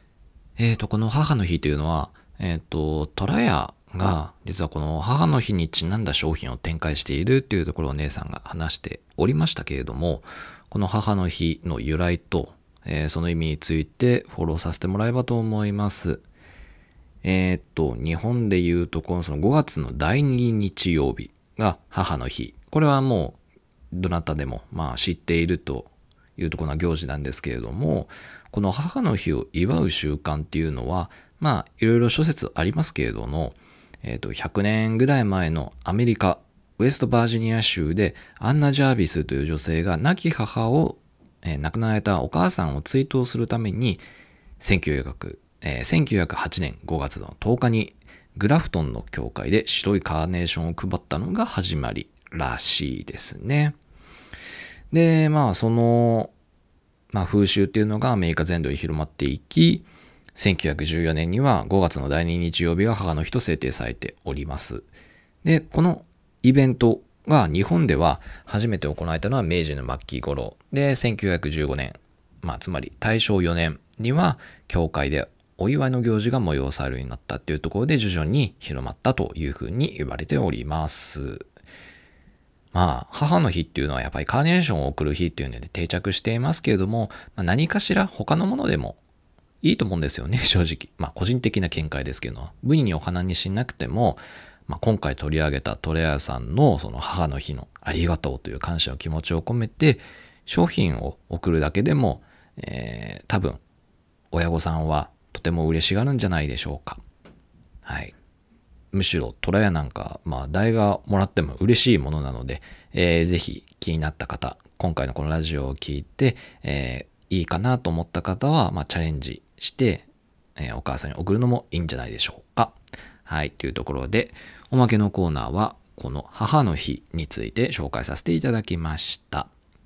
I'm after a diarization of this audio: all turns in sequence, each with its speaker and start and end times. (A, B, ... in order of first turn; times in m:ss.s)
0:00.6-0:16.2 A
0:17.2-0:23.4 A
0:23.9-0:44.0 A
0:44.6-0:53.8 A
0:54.9-0:56.3 A
0:57.1-1:04.9 A
1:05.4-1:21.5 A
1:22.7-1:29.0 A
1:29.6-1:43.6 A
1:44.3-1:47.0 A
1:47.8-1:48.1 A
1:48.9-2:09.5 A